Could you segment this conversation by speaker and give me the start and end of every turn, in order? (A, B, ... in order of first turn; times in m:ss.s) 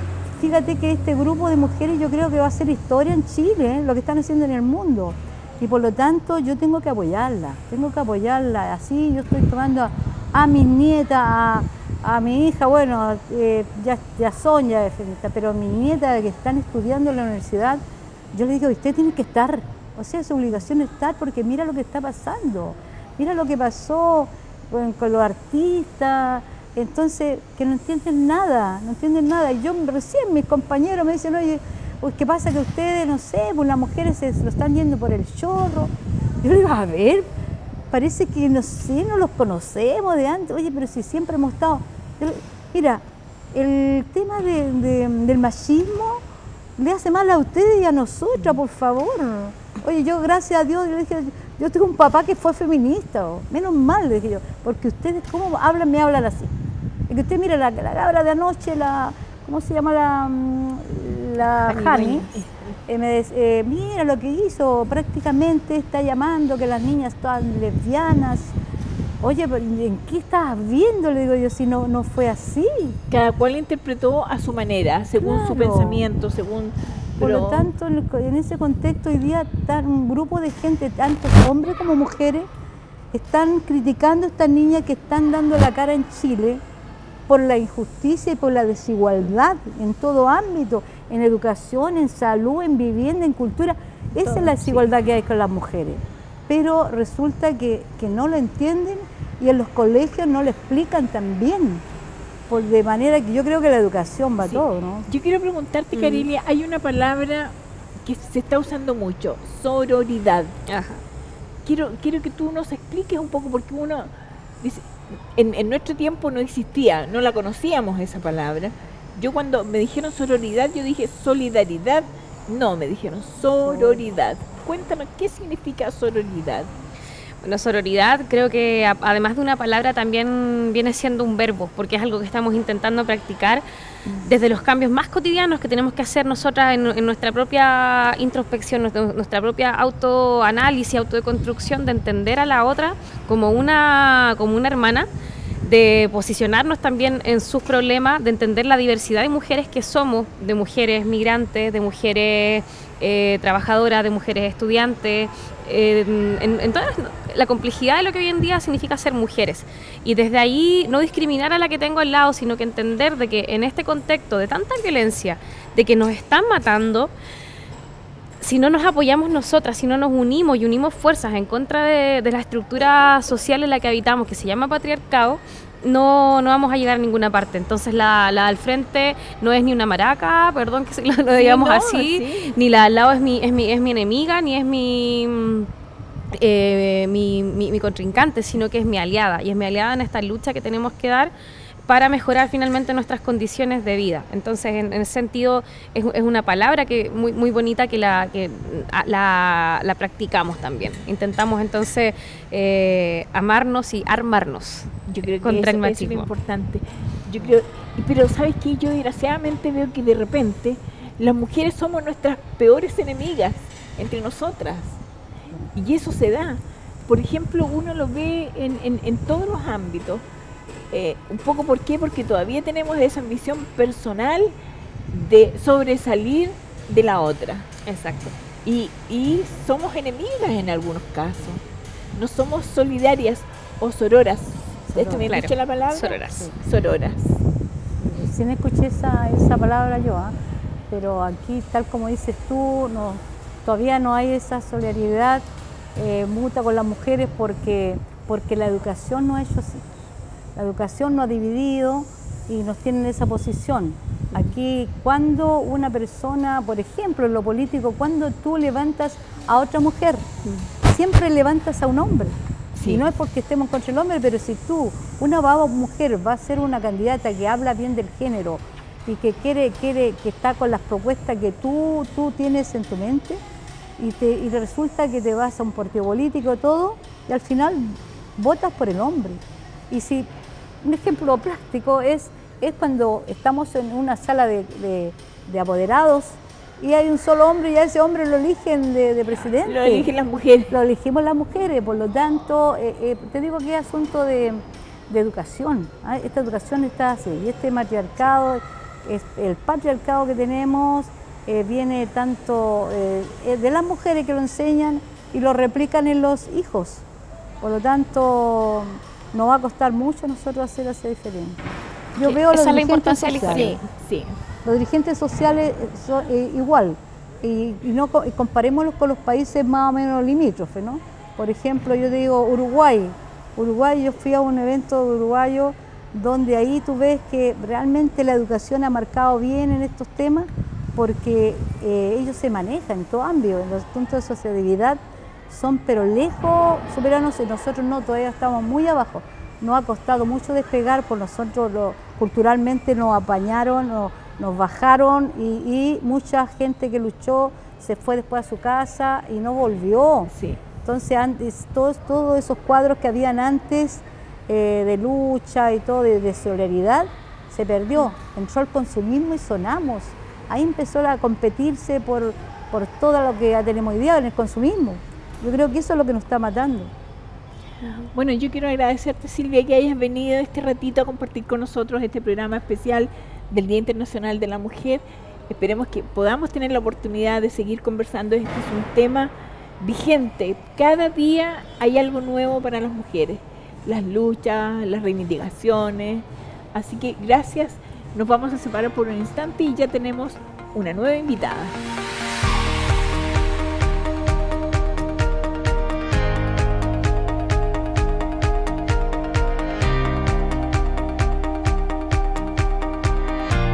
0:00.4-0:17.8 A
0:18.3-0:37.3 A
0:37.9-0:46.2 A
0:46.8-0:56.5 A
0:57.1-1:02.3 A
1:01.7-1:02.5 B
1:02.9-1:08.6 A
1:09.2-1:13.0 A
1:13.1-1:17.7 B
1:15.2-1:16.0 A
1:17.2-1:22.5 A
1:23.1-1:26.6 A
1:27.3-1:41.8 A
1:34.2-1:34.8 B
1:42.5-1:45.1 A
1:44.4-1:50.6 B
1:46.0-1:46.2 C
1:50.7-1:51.0 C
1:51.6-2:06.7 B
2:03.7-2:04.0 A
2:07.4-2:13.6 C
2:14.2-2:25.1 C
2:25.6-2:47.1 C
2:48.4-3:05.7 C
3:01.3-3:02.5 B
3:06.3-3:11.3 C
3:11.9-3:26.3 C
3:25.1-3:35.0 B
3:35.7-3:40.2 B
3:40.9-3:44.5 B
3:45.1-3:47.7 B
3:47.9-3:48.4 C
3:48.6-3:51.6 B
3:52.2-3:57.4 B
3:54.9-3:55.3 A
3:55.3-3:56.5 C
3:58.0-4:00.4 A
4:00.9-4:09.9 A
4:10.6-4:20.3 A
4:20.8-4:33.4 A
4:22.8-4:23.1 B
4:34.0-4:40.3 A
4:40.8-4:50.1 A
4:49.6-4:50.8 B
4:50.7-5:07.0 A
5:07.6-5:11.6 A
5:12.2-5:13.8 A
5:12.2-5:13.8 C
5:13.5-5:14.4 B
5:14.6-5:50.3 A
5:50.3-5:50.6 B
5:50.8-6:06.9 A
6:08.1-6:31.8 B